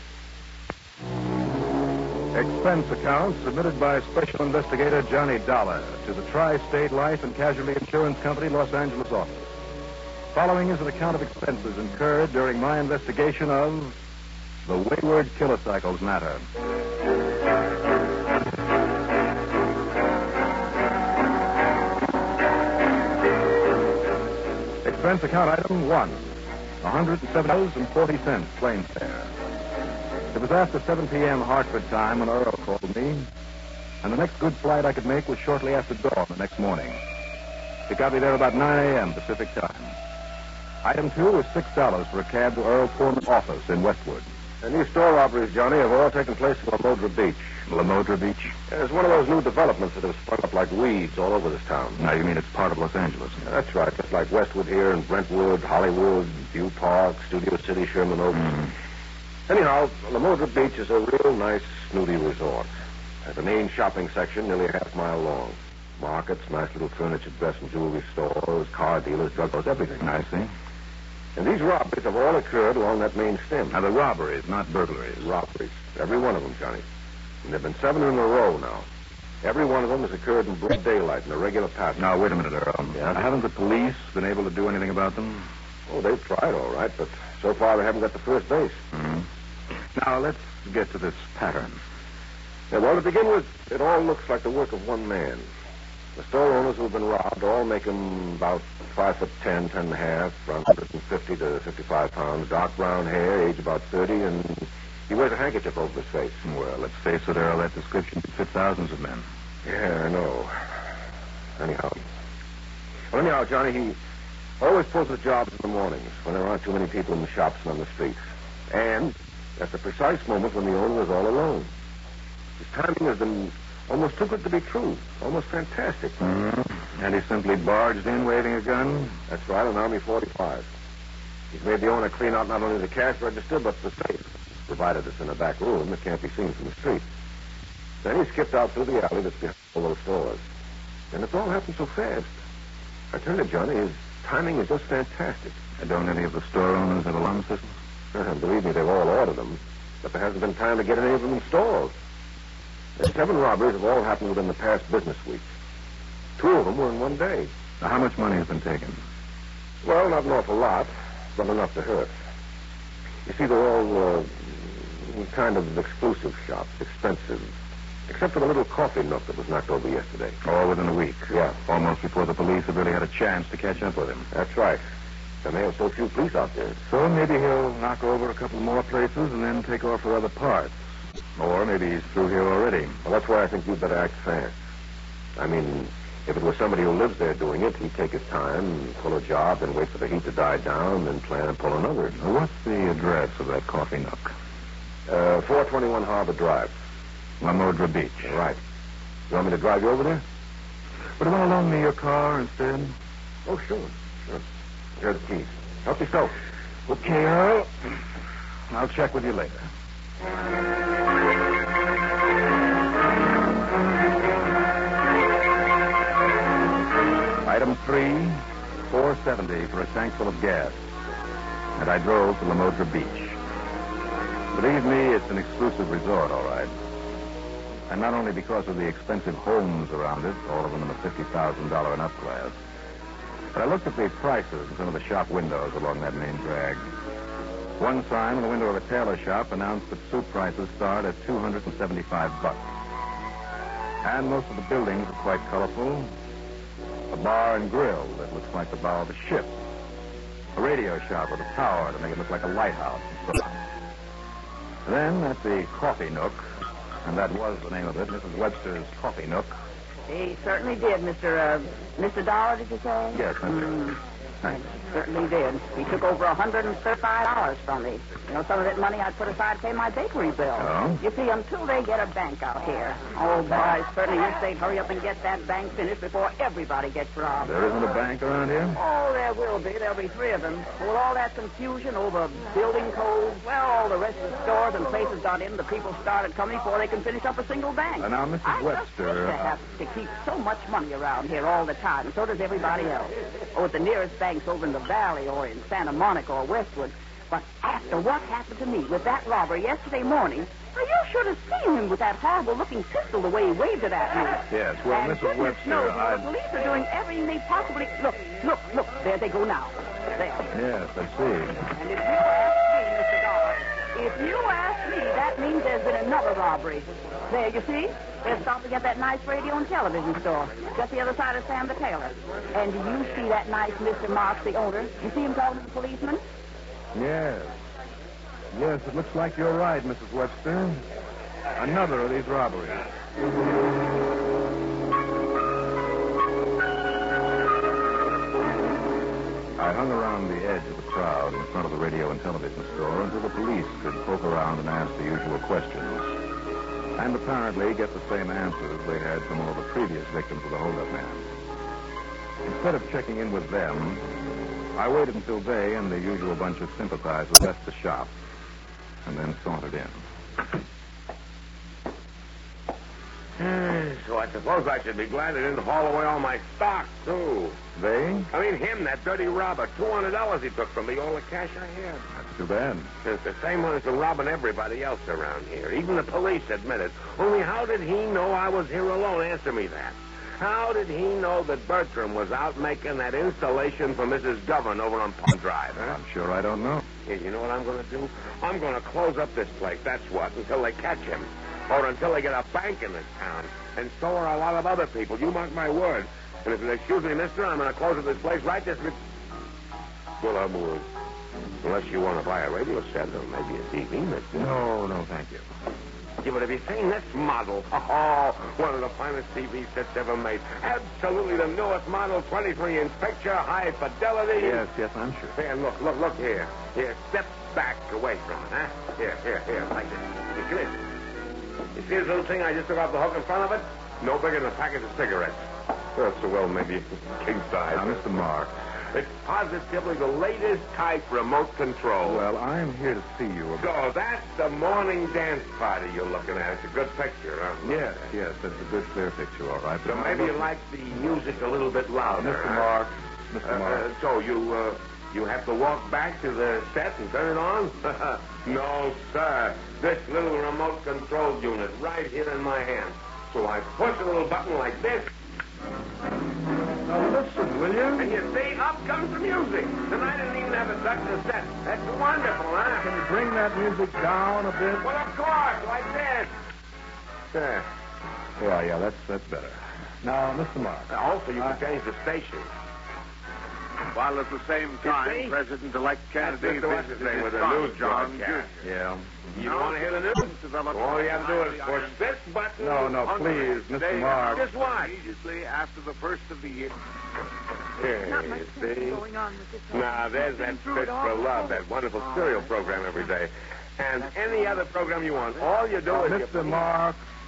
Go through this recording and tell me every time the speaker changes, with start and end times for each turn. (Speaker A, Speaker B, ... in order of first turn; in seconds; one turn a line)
Speaker A: 2.3-9.5
Speaker A: 10.3-14.0
Speaker A: 14.7-16.5
Speaker A: 24.8-29.4
Speaker A: 30.3-33.3
Speaker A: 34.0-37.0
Speaker A: 37.9-40.0
Speaker A: 40.8-44.3
Speaker B: 44.6-47.5
Speaker A: 47.7-48.6
Speaker B: 48.7-52.0
Speaker A: 52.0-53.4
Speaker B: 53.4-58.7
Speaker B: 59.5-62.7
Speaker B: 63.2-70.1
Speaker A: 70.0-70.5
Speaker B: 71.4-73.8
Speaker A: 73.7-75.3
Speaker B: 75.2-76.8
Speaker B: 77.4-78.9
Speaker B: 79.4-82.1
Speaker A: 82.0-85.5
Speaker B: 85.9-88.8
Speaker A: 88.9-89.3
Speaker A: 89.9-91.8
Speaker B: 92.7-95.5
Speaker B: 96.2-106.4
Speaker A: 106.4-109.3
Speaker B: 109.6-110.6
Speaker B: 111.6-112.0
Speaker B: 113.1-114.0
Speaker B: 114.6-121.7
Speaker B: 122.6-126.2
Speaker A: 126.2-129.2
Speaker B: 129.3-130.7
Speaker B: 131.5-137.1
Speaker B: 138.0-140.4
Speaker B: 141.1-142.4
Speaker B: 143.1-145.6
Speaker A: 145.8-147.8
Speaker B: 148.1-151.9
Speaker B: 153.0-155.4
Speaker B: 156.4-157.5
Speaker A: 157.8-159.0
Speaker B: 159.8-162.1
Speaker B: 163.2-167.5
Speaker B: 168.1-170.4
Speaker A: 170.4-174.3
Speaker B: 171.3-171.6
Speaker B: 174.3-174.8
Speaker B: 175.4-176.8
Speaker A: 176.9-180.8
Speaker A: 181.4-183.0
Speaker B: 183.0-184.6
Speaker B: 185.4-192.2
Speaker A: 192.2-194.3
Speaker B: 195.1-196.8
Speaker A: 197.4-198.4
Speaker B: 198.2-198.6
Speaker B: 199.3-200.2
Speaker A: 201.2-202.9
Speaker B: 203.4-204.4
Speaker B: 205.0-206.3
Speaker A: 206.9-207.7
Speaker A: 208.7-209.6
Speaker A: 217.4-220.9
Speaker A: 221.8-223.4
Speaker A: 224.5-226.7
Speaker A: 227.9-232.6
Speaker A: 233.5-236.9
Speaker A: 237.8-242.7
Speaker A: 244.0-246.1
Speaker A: 247.1-249.6
Speaker A: 250.6-253.4
Speaker A: 254.8-259.6
Speaker C: 260.1-264.0
Speaker A: 263.1-263.9
Speaker C: 264.5-277.6
Speaker A: 270.6-271.0
Speaker A: 277.4-278.8
Speaker C: 278.8-310.5
Speaker A: 288.0-289.4
Speaker A: 304.5-306.3
Speaker A: 310.5-311.6
Speaker C: 311.7-326.2
Speaker A: 326.9-327.6
Speaker A: 328.5-330.9
Speaker A: 331.6-332.8
Speaker A: 339.6-346.2
Speaker A: 346.9-351.3
Speaker A: 352.4-354.1
Speaker A: 354.8-358.1
Speaker A: 359.1-360.0
Speaker D: 363.4-367.6
Speaker A: 367.8-368.3
Speaker D: 368.3-372.1
Speaker A: 372.1-372.9
Speaker D: 373.0-386.0
Speaker A: 385.8-386.9
Speaker D: 387.1-399.0
Speaker D: 400.2-400.9
Speaker D: 401.6-404.4
Speaker A: 404.3-405.4
Speaker D: 406.2-414.6
Speaker A: 414.4-415.4
Speaker D: 415.4-420.8
Speaker D: 421.7-428.1
Speaker A: 427.7-428.5
Speaker D: 428.9-432.2
Speaker A: 432.0-433.7
Speaker D: 433.6-438.1
Speaker A: 437.6-440.5
Speaker D: 439.8-442.7
Speaker A: 442.2-443.9
Speaker D: 443.4-455.1
Speaker A: 456.8-458.2
Speaker D: 458.0-462.9
Speaker A: 462.8-464.9
Speaker D: 464.8-466.3
Speaker D: 467.3-467.7
Speaker A: 468.4-471.6
Speaker D: 470.9-472.5
Speaker E: 473.9-478.6
Speaker D: 474.8-475.4
Speaker D: 476.2-478.5
Speaker A: 478.6-479.4
Speaker D: 479.4-483.1
Speaker E: 479.4-482.2
Speaker A: 482.6-484.5
Speaker E: 482.9-486.8
Speaker D: 484.3-484.9
Speaker D: 487.8-489.1
Speaker D: 489.7-496.7
Speaker A: 495.9-497.0